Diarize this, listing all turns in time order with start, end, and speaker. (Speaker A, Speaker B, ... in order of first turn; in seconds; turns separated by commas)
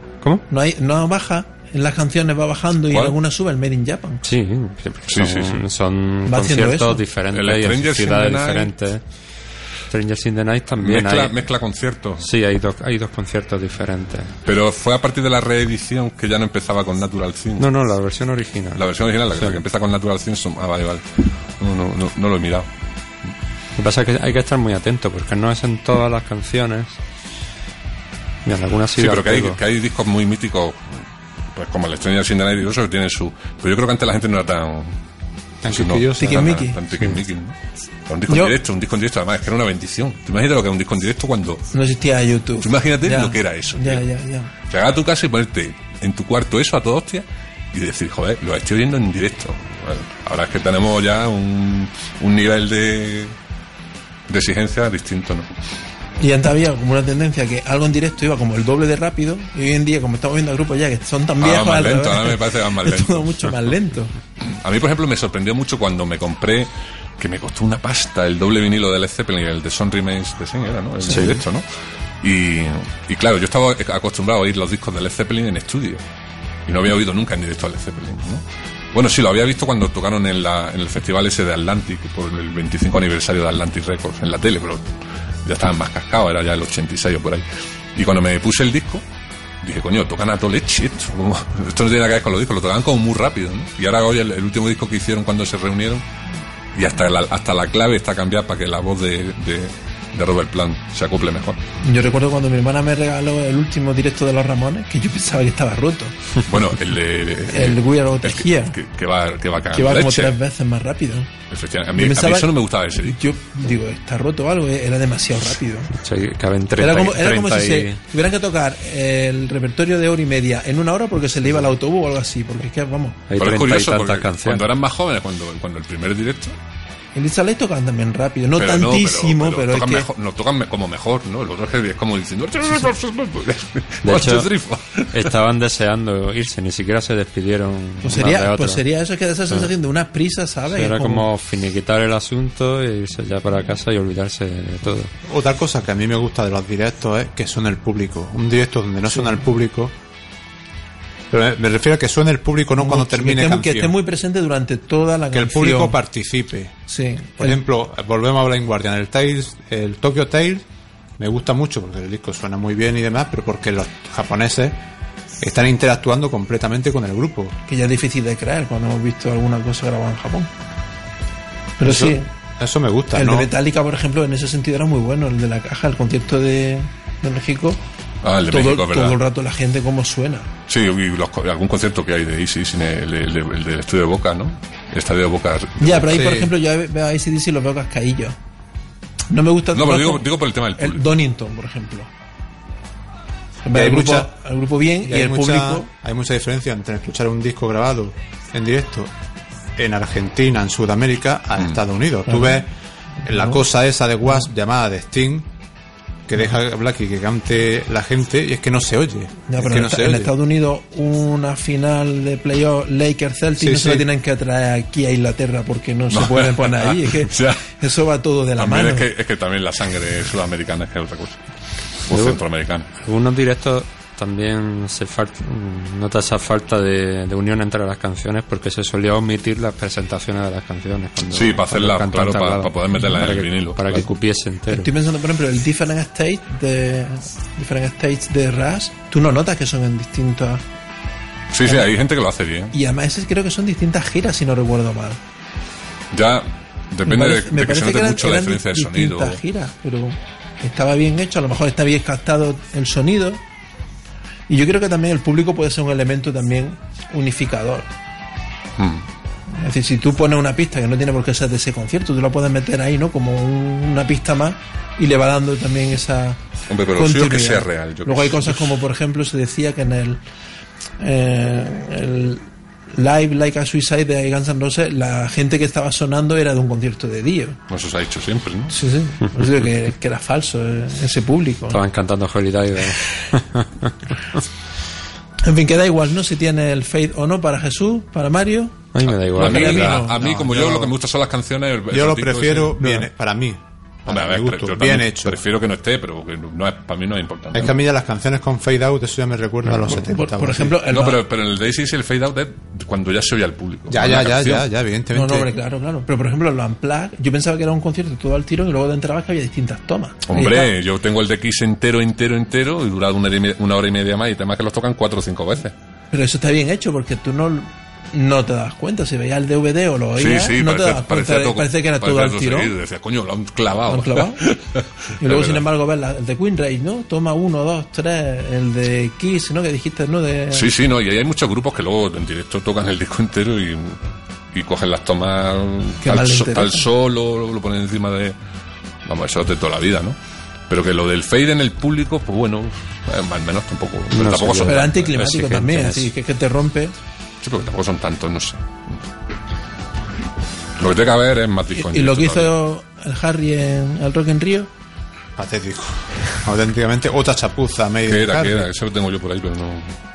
Speaker A: 0.5-4.2, Speaker B: 2.9-3.2, Speaker C: 4.2-9.0, Speaker B: 5.1-5.6, Speaker A: 6.3-7.0, Speaker B: 7.3-8.7, Speaker C: 9.9-11.4, Speaker B: 10.8-12.3, Speaker C: 12.2-14.3, Speaker B: 14.4-17.7, Speaker C: 17.6-19.6, Speaker B: 18.8-22.7, Speaker C: 23.8-27.0, Speaker C: 28.4-29.6, Speaker B: 29.0-35.0, Speaker D: 35.6-36.6, Speaker B: 35.7-37.6, Speaker A: 36.2-36.8, Speaker B: 38.1-41.6, Speaker A: 38.3-38.5, Speaker A: 41.7-44.5, Speaker B: 42.6-44.0, Speaker B: 44.7-53.4, Speaker B: 54.3-55.5, Speaker A: 56.2-64.1, Speaker B: 61.4-63.5, Speaker B: 64.4-71.7, Speaker C: 71.1-71.4, Speaker B: 72.2-76.0, Speaker B: 76.7-84.9, Speaker B: 85.5-89.0, Speaker B: 89.6-96.0, Speaker B: 96.8-101.6, Speaker A: 101.8-106.2, Speaker B: 106.5-110.4, Speaker A: 107.5-108.8, Speaker A: 109.7-111.3, Speaker B: 111.5-113.2, Speaker A: 112.0-115.9, Speaker C: 116.0-118.0, Speaker A: 116.8-123.2, Speaker C: 123.3-124.7, Speaker B: 123.3-126.6, Speaker A: 127.2-130.1, Speaker B: 128.6-135.3, Speaker C: 134.0-134.5, Speaker C: 135.1-138.8, Speaker A: 138.0-141.3, Speaker C: 140.7-145.1, Speaker D: 145.2-149.9, Speaker D: 151.3-153.9, Speaker A: 152.8-156.0, Speaker D: 155.3-156.7, Speaker A: 156.9-157.6, Speaker D: 157.4-160.7, Speaker D: 161.2-164.8, Speaker D: 165.4-167.6, Speaker A: 167.7-170.5, Speaker A: 171.8-172.3, Speaker D: 171.8-173.5, Speaker A: 173.1-177.8, Speaker B: 178.2-179.2, Speaker A: 178.5-180.5, Speaker B: 180.7-186.2, Speaker A: 185.8-188.3, Speaker D: 186.1-186.5, Speaker A: 189.3-192.1, Speaker B: 189.7-191.1, Speaker A: 193.6-195.9, Speaker D: 193.7-194.3, Speaker D: 195.1-199.1, Speaker D: 199.8-202.7, Speaker A: 202.3-202.6, Speaker D: 203.2-205.5, Speaker A: 203.2-203.6, Speaker D: 206.3-210.3, Speaker A: 209.5-219.1, Speaker D: 213.6-214.1, Speaker B: 216.1-217.7, Speaker B: 218.6-221.4, Speaker B: 222.0-222.9, Speaker C: 222.1-222.4, Speaker C: 223.0-234.9, Speaker B: 231.3-234.2, Speaker A: 234.7-240.6, Speaker B: 241.5-242.8, Speaker A: 242.7-245.2, Speaker B: 246.1-249.4, Speaker A: 247.1-253.4, Speaker A: 254.5-257.9, Speaker B: 258.8-259.1, Speaker A: 259.6-266.4, Speaker B: 266.7-268.8, Speaker A: 266.9-270.2, Speaker A: 271.0-277.6, Speaker B: 277.7-278.8, Speaker A: 278.7-281.8, Speaker C: 281.7-283.9, Speaker A: 285.4-288.8, Speaker C: 288.9-290.0, Speaker B: 289.0-292.8, Speaker A: 289.4-290.4, Speaker D: 290.1-290.9, Speaker D: 291.9-295.4, Speaker C: 292.8-293.1, Speaker B: 294.1-297.8, Speaker D: 297.5-300.8, Speaker A: 300.0-301.2, Speaker B: 300.9-304.7, Speaker D: 303.9-305.5, Speaker A: 305.1-310.7, Speaker B: 310.2-315.7, Speaker A: 316.1-322.8, Speaker B: 320.1-325.7, Speaker A: 323.9-324.4, Speaker A: 325.2-330.7, Speaker B: 330.5-334.0, Speaker B: 334.5-338.4, Speaker A: 336.0-336.9, Speaker B: 339.1-340.2, Speaker B: 340.7-345.1, Speaker C: 344.1-346.1, Speaker A: 344.7-346.9, Speaker B: 347.4-349.0, Speaker B: 350.8-352.5, Speaker A: 351.7-354.7, Speaker D: 355.4-358.7, Speaker B: 358.1-359.9